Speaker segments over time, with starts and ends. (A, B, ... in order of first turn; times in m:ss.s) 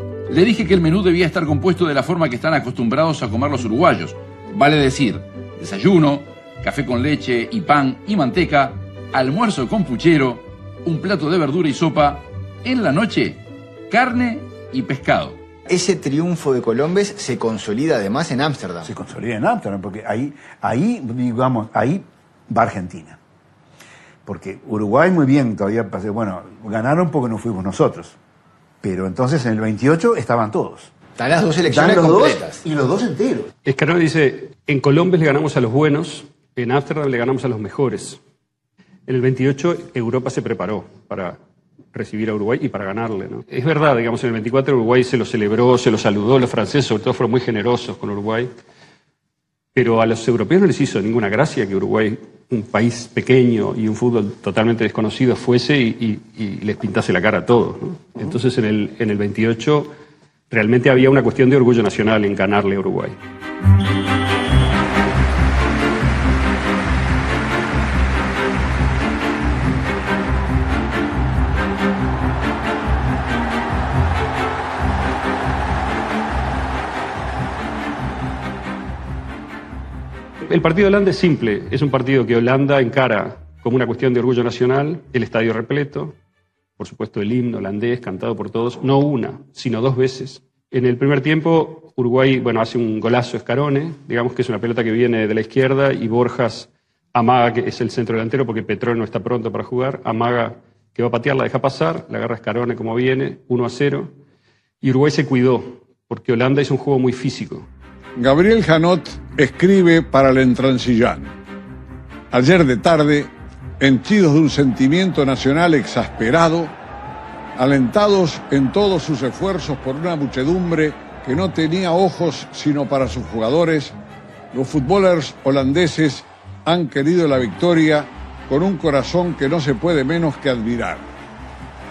0:00.3-0:15.4 A
0:15.7-0:18.9 B
0:18.8-0:23.2 C
0:24.2-0:28.2 C
0:28.8-0:30.9 C
0:31.2-0:32.6 B
0:31.7-0:33.5 C
0:33.6-0:38.2 D
0:39.1-0:41.4 D
0:41.9-0:48.5 D
0:49.7-0:59.9 D
1:00.5-1:03.2 D
1:20.4-1:26.2 D
1:26.8-1:44.1 D
1:44.8-1:47.7 D
1:48.2-1:51.3 E
1:52.3-1:56.7 E
1:57.6-2:03.9 E
2:04.5-2:11.0 E